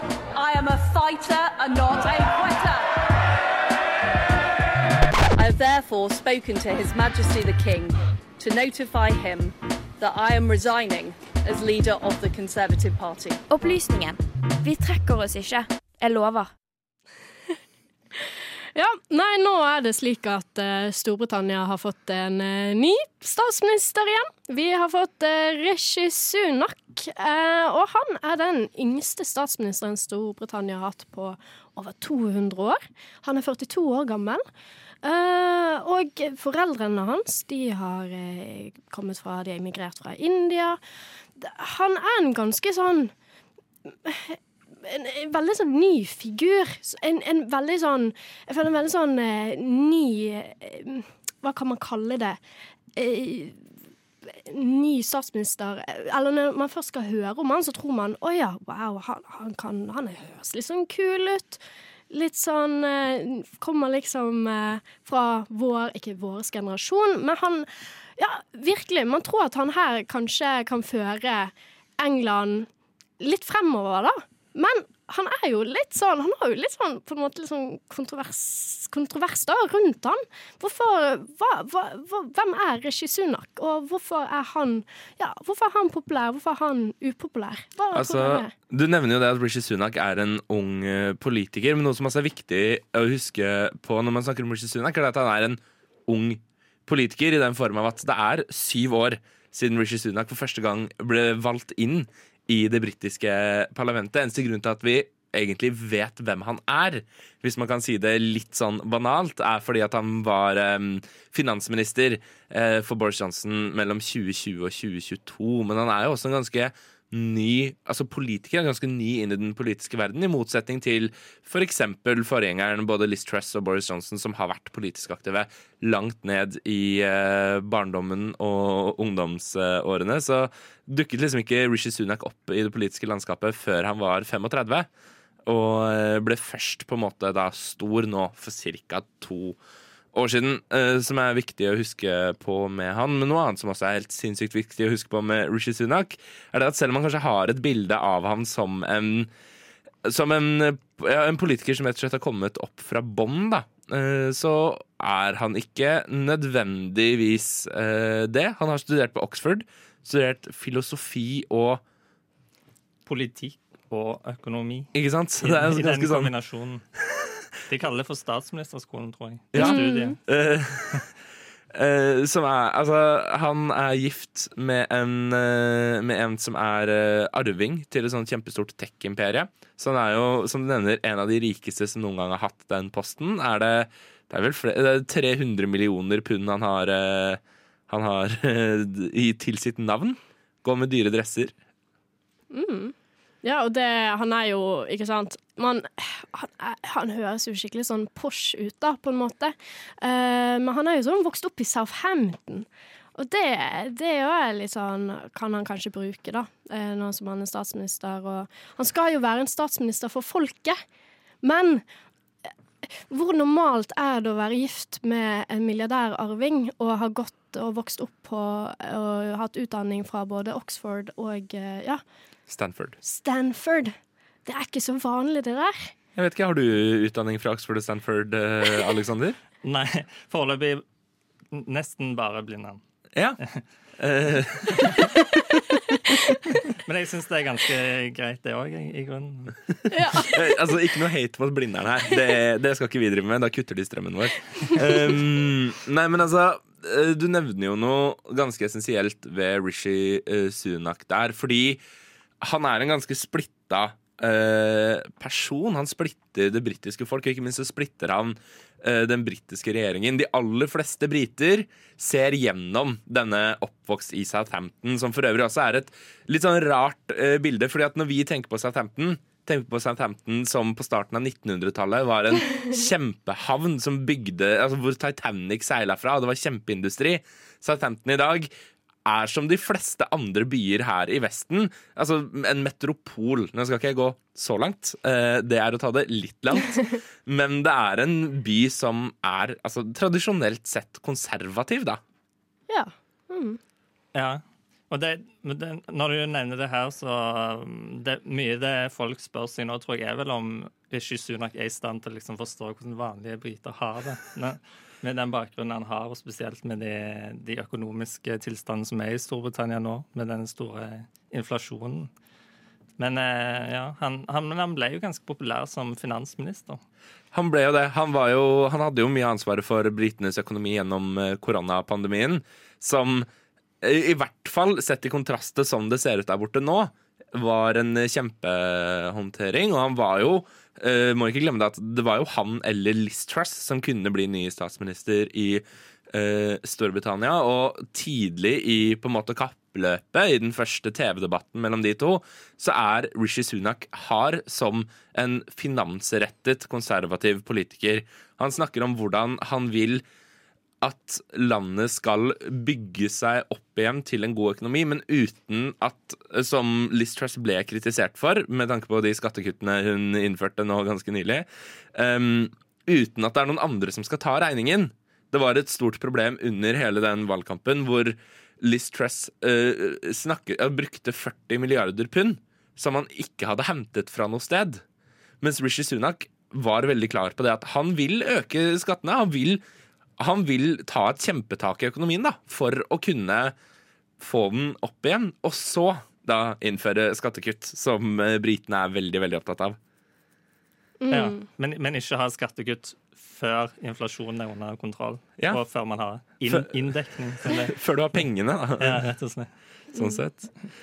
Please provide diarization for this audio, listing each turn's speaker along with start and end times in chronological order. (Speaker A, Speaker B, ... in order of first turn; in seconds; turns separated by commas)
Speaker A: 0.3-2.9, Speaker A: 5.3-13.4, Speaker B: 13.5-16.5, Speaker C: 18.7-34.4, Speaker C: 35.0-40.8, Speaker C: 41.4-43.1, Speaker C: 44.0-52.4, Speaker C: 53.0-53.6, Speaker C: 54.2-72.7, Speaker C: 73.2-88.5, Speaker D: 87.9-134.9, Speaker D: 135.4-139.6, Speaker D: 140.1-149.3, Speaker D: 150.1-161.8, Speaker E: 163.1-166.8, Speaker D: 164.9-166.3, Speaker E: 167.7-170.2, Speaker D: 169.5-171.1, Speaker C: 169.6-170.2, Speaker D: 171.7-191.5, Speaker C: 192.5-210.8, Speaker C: 211.4-211.8, Speaker C: 213.1-222.0, Speaker D: 222.5-223.0, Speaker C: 223.0-223.9, Speaker C: 224.4-225.9, Speaker D: 226.2-229.4, Speaker E: 229.6-230.8, Speaker E: 231.5-232.8, Speaker D: 234.0-235.6, Speaker E: 236.5-239.9, Speaker C: 239.9-240.4, Speaker D: 240.2-251.8, Speaker D: 252.4-278.5, Speaker D: 279.1-292.0, Speaker C: 292.7-293.6, Speaker E: 294.1-312.1, Speaker E: 313.0-316.8, Speaker D: 317.3-323.3, Speaker D: 323.8-350.0, Speaker D: 350.8-374.8, Speaker D: 375.4-379.6, Speaker D: 380.2-383.5, Speaker D: 384.2-389.8, Speaker C: 391.0-391.4, Speaker E: 391.1-397.8, Speaker D: 397.5-399.0, Speaker E: 398.8-399.5, Speaker D: 399.9-400.5